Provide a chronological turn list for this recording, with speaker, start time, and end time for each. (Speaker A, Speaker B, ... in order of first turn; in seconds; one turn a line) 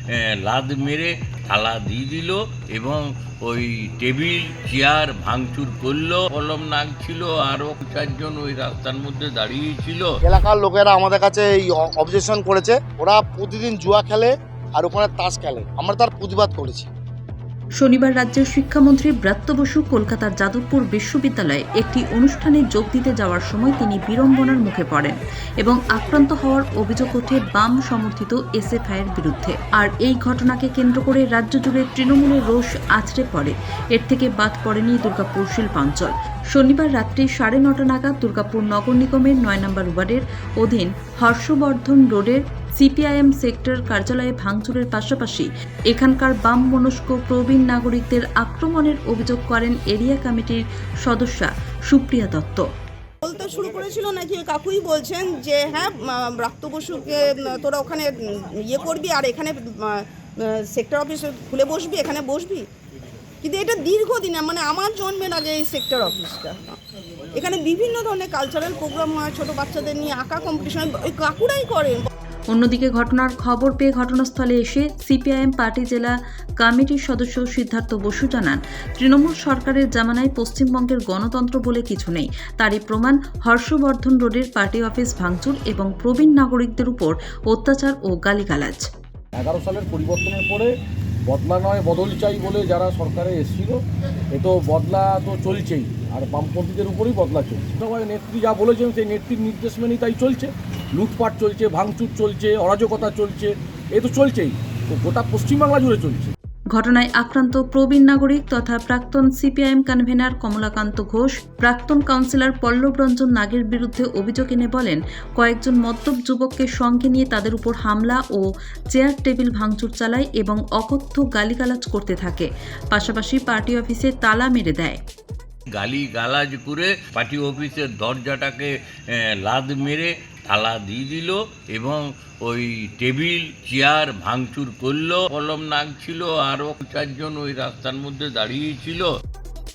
Speaker A: 0.4-10.1
Speaker B: 10.2-16.9
Speaker C: 17.8-52.7
Speaker D: 53.2-62.7
Speaker D: 63.4-66.8
Speaker D: 67.3-72.1
Speaker C: 72.5-88.9
Speaker E: 89.4-90.7
Speaker E: 91.3-106.3
Speaker C: 106.7-125.0
Speaker A: 125.8-139.1